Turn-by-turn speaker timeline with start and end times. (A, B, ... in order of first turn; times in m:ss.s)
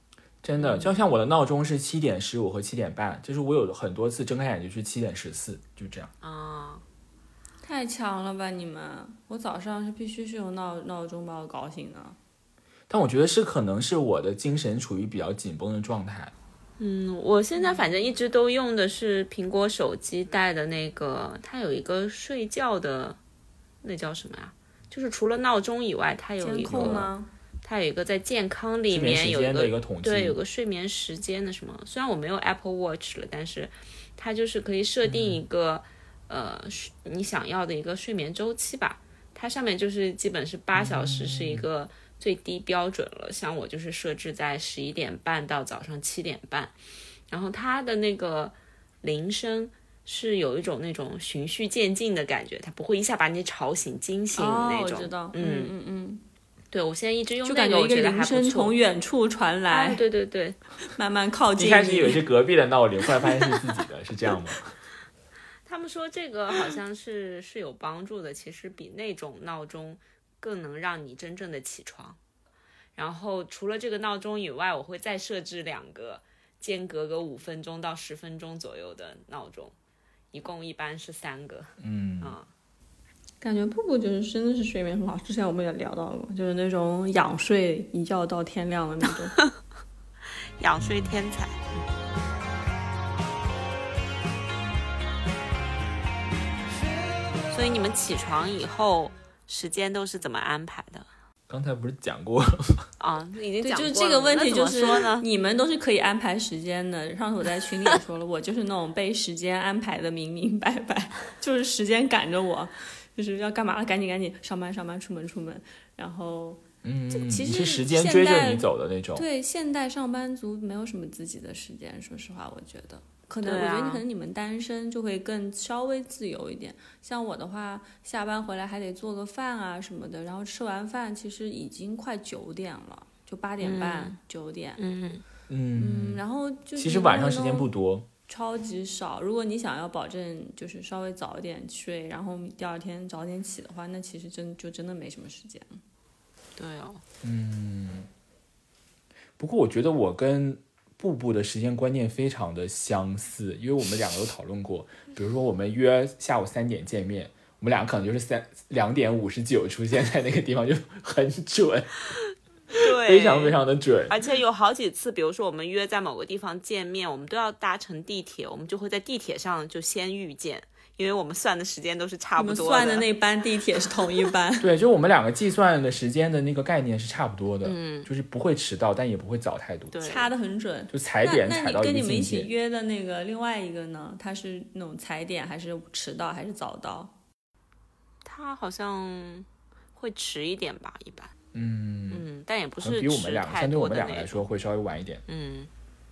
0:00.4-0:06.1 A
0:06.2-0:06.8 B
0:07.6-0:12.2 C
0:12.9-0:16.3 A
0:16.8-0:23.2 B
0:17.6-0:17.8 C
0:23.8-0:27.1 B
0:26.4-0:27.3 C
0:26.7-0:27.1 A
0:27.6-0:46.7 B
0:28.9-0:30.4 A
0:35.0-0:35.4 A
0:40.7-0:41.7 A
0:47.3-0:55.7 B
0:54.4-0:56.2 C
0:56.7-0:58.8 B
0:57.4-1:00.0 C
0:59.7-1:00.6 B
1:00.9-1:02.2 C
1:01.6-1:04.7 A
1:05.6-1:12.2 B
1:12.9-1:19.7 B
1:20.3-1:22.5 B
1:21.8-1:22.4 A
1:23.4-1:29.4 C
1:30.6-1:31.6 B
1:30.8-1:31.2 A
1:37.5-1:41.1 B
1:41.5-1:42.9 A
1:43.0-1:45.3 B
1:43.6-1:56.6 C
1:56.8-1:59.2 A
1:57.1-2:14.8 C
2:03.4-2:04.0 B
2:13.6-2:14.2 B
2:14.8-2:15.2 B
2:15.5-2:16.2 A
2:15.8-2:17.7 C
2:16.8-2:18.1 A
2:18.3-2:25.8 C
2:26.6-2:27.0 B
2:27.2-2:28.1 A
2:29.4-2:42.0 A
2:42.7-2:43.6 B
2:42.8-2:44.2 A
2:44.1-2:53.0 B
2:52.4-2:54.7 C
2:54.6-3:00.0 A
2:57.6-2:58.1 B
2:59.9-3:00.3 B
3:00.0-3:07.1 C
3:00.9-3:02.5 A
3:08.2-3:11.3 B
3:11.5-3:12.2 A
3:12.1-3:14.4 B
3:12.8-3:15.2 A
3:15.3-3:15.7 B